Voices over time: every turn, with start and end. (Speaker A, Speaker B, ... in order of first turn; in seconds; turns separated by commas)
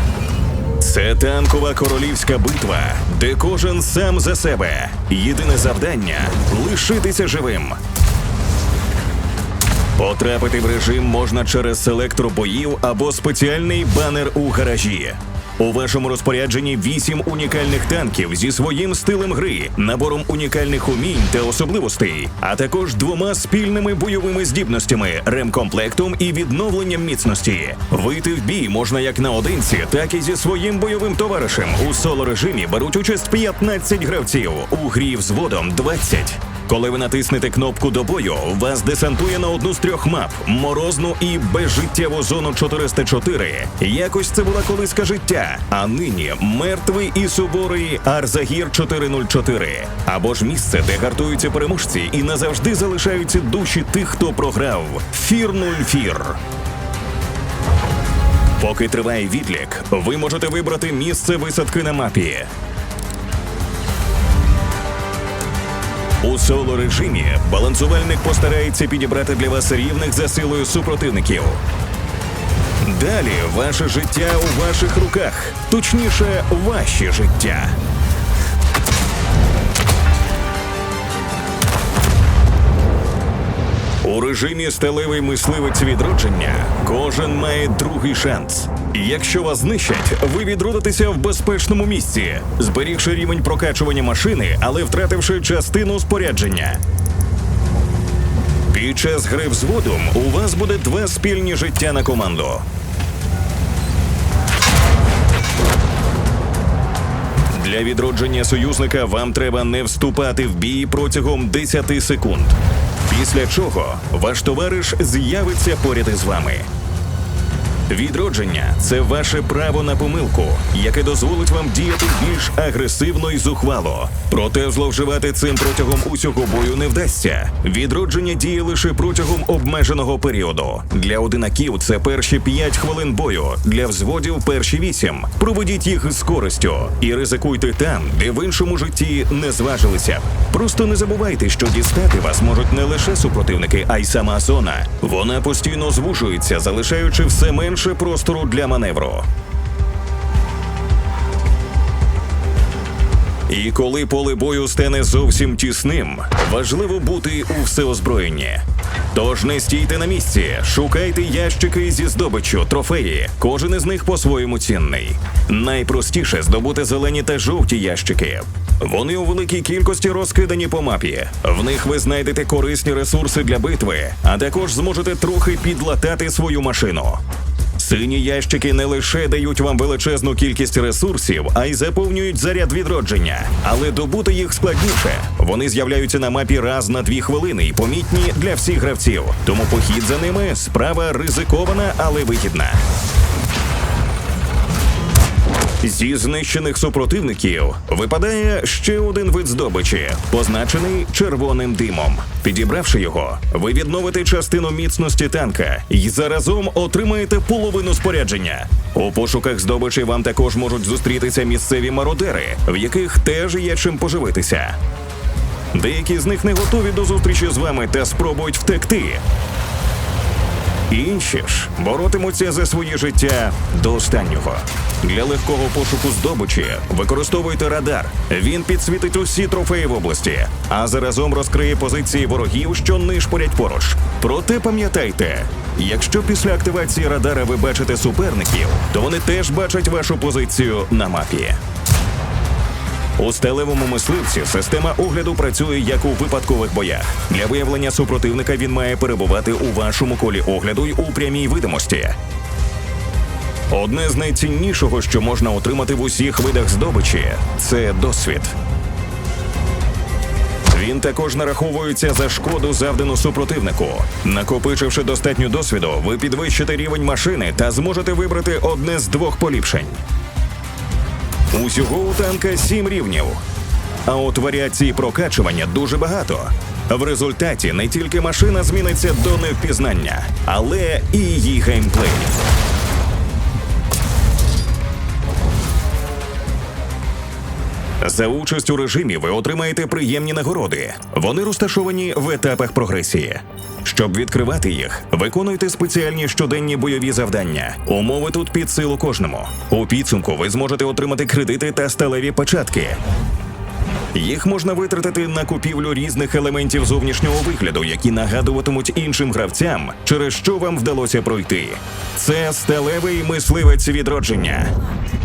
Speaker A: 0.8-7.8, Speaker A: 10.0-56.4, Speaker A: 58.6-62.5, Speaker A: 66.2-71.6, Speaker A: 72.8-77.8, Speaker A: 84.0-96.8, Speaker A: 98.7-102.7, Speaker A: 107.5-116.7, Speaker A: 117.9-149.3, Speaker A: 153.5-177.2, Speaker A: 177.8-192.8, Speaker A: 195.8-214.8, Speaker A: 215.7-219.2, Speaker A: 220.9-241.6, Speaker A: 243.2-252.2, Speaker A: 253.7-258.6, Speaker A: 260.7-270.0, Speaker A: 271.5-273.4, Speaker A: 274.1-282.4, Speaker A: 288.0-303.0, Speaker A: 304.1-314.8